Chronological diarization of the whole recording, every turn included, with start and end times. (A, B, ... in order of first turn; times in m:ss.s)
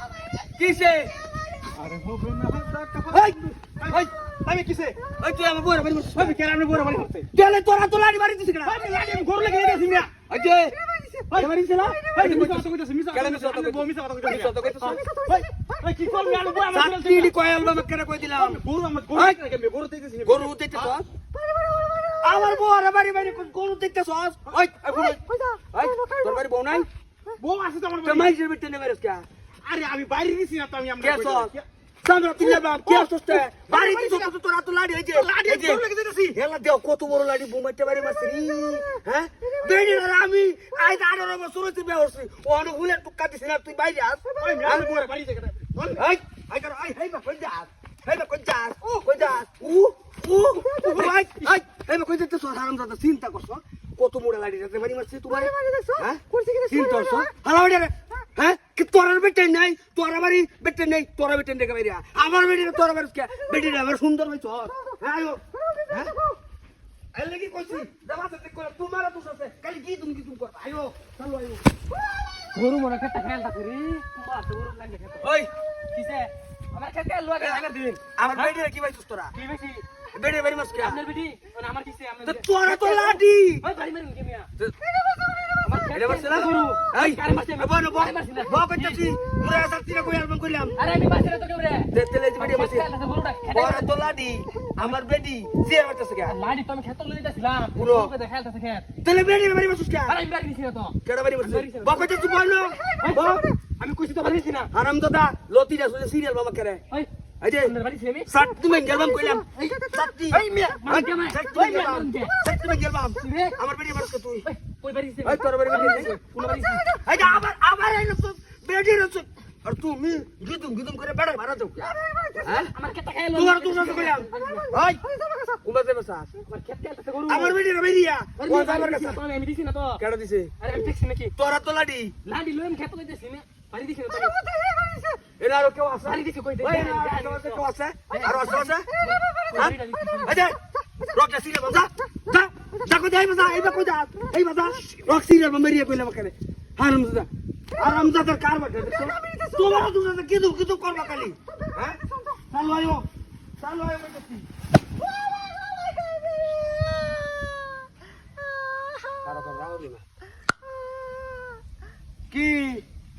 0:00.6-0:01.1 A
0:01.8-0:05.0 B
0:03.1-0:04.1 A
0:05.2-0:06.4 A
0:06.1-0:07.3 B
0:07.3-0:08.8 A
0:08.6-0:10.1 B
0:10.3-0:10.8 A
0:11.3-0:15.0 A
0:12.1-0:17.3 B
0:16.7-0:18.6 A
0:18.3-0:21.0 B
0:20.2-0:21.1 A
0:22.2-0:26.9 A
0:27.4-0:28.3 B
0:28.0-0:29.3 A
0:29.6-0:31.7 B
0:31.0-0:31.5 A
0:32.0-0:44.9 A
0:35.1-0:36.4 B
0:44.4-0:46.0 B
0:46.0-1:06.1 A
1:07.1-1:11.6 A
1:12.5-1:15.3 C
1:15.2-1:15.5 A
1:15.9-1:18.6 C
1:18.2-1:19.4 A
1:19.3-1:19.8 C
1:20.1-1:21.0 A
1:20.8-1:24.5 C
1:22.2-1:23.6 A
1:25.6-1:29.0 C
1:25.9-1:30.8 A
1:30.8-1:33.9 C
1:31.9-1:32.9 A
1:33.5-1:36.4 A
1:36.3-1:38.9 C
1:37.8-1:38.1 A
1:39.0-1:40.2 A
1:40.1-1:42.1 C
1:41.0-1:43.4 A
1:43.0-1:44.7 C
1:44.7-1:46.8 A
1:47.4-1:47.7 A
1:47.6-1:48.3 C
1:48.3-1:54.5 A
1:49.5-1:52.3 C
1:53.2-1:53.6 C
1:54.4-1:57.4 C
1:55.2-1:56.2 A
1:56.9-2:02.7 A
2:02.6-2:04.7 C
2:03.3-2:05.0 A
2:05.6-2:06.3 A
2:06.5-2:07.6 C
2:07.3-2:09.2 A
2:08.4-2:10.0 C
2:10.0-2:10.5 A
2:10.6-2:11.4 C
2:11.4-2:12.1 A
2:12.2-2:14.4 C
2:15.4-2:18.9 A
2:16.0-2:20.5 C
2:19.5-2:20.6 A
2:21.1-2:32.0 A
2:32.5-2:33.1 A
2:33.6-2:34.5 A
2:39.2-2:40.0 A
2:42.3-2:42.8 A